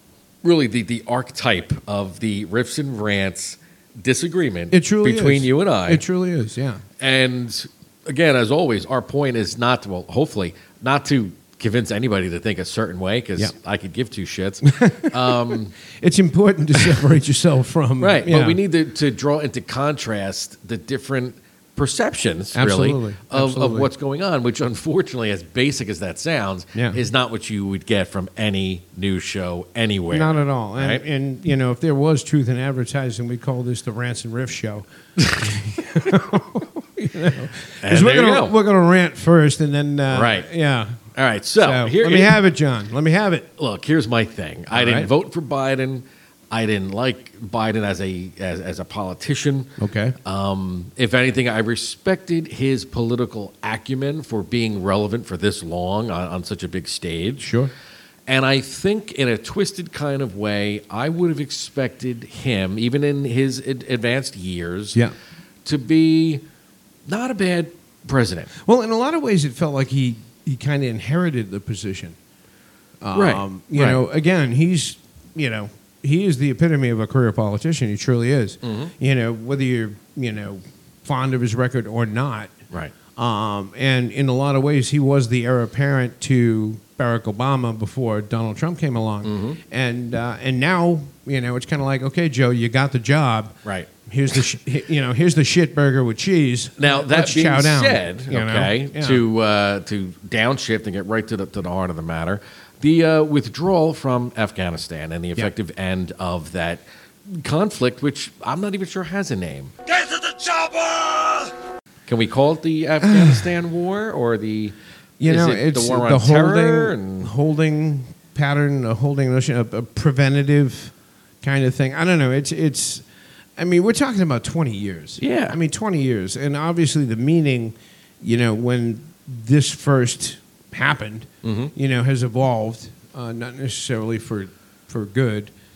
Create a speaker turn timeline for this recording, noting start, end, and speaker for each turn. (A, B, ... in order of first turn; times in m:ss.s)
0:00.4-0:06.0 A
0:04.7-0:06.8 B
0:07.0-0:15.7 A
0:14.6-0:18.6 B
0:18.0-0:31.0 A
0:22.5-0:23.9 B
0:26.7-0:27.0 B
0:30.1-0:34.8 B
0:35.2-0:35.6 A
0:35.4-0:41.0 B
0:37.8-0:38.5 A
0:40.1-0:40.5 A
0:41.1-0:42.4 A
0:41.6-0:43.5 B
0:43.6-0:49.7 A
0:44.7-0:45.1 B
0:49.8-0:50.2 B
0:50.2-0:57.5 A
0:57.4-0:57.7 B
0:58.3-1:05.0 A
1:05.6-1:06.4 A
1:07.1-1:08.5 A
1:08.6-1:12.2 B
1:13.0-1:22.5 B
1:13.1-1:14.0 A
1:18.6-1:18.9 A
1:23.2-1:33.5 B
1:29.2-1:29.6 A
1:34.0-1:39.2 B
1:36.8-1:49.7 A
1:52.1-1:57.3 A
1:53.0-1:53.4 B
1:55.2-2:03.0 B
2:03.6-2:15.5 B
2:05.2-2:05.6 A
2:11.4-2:11.7 A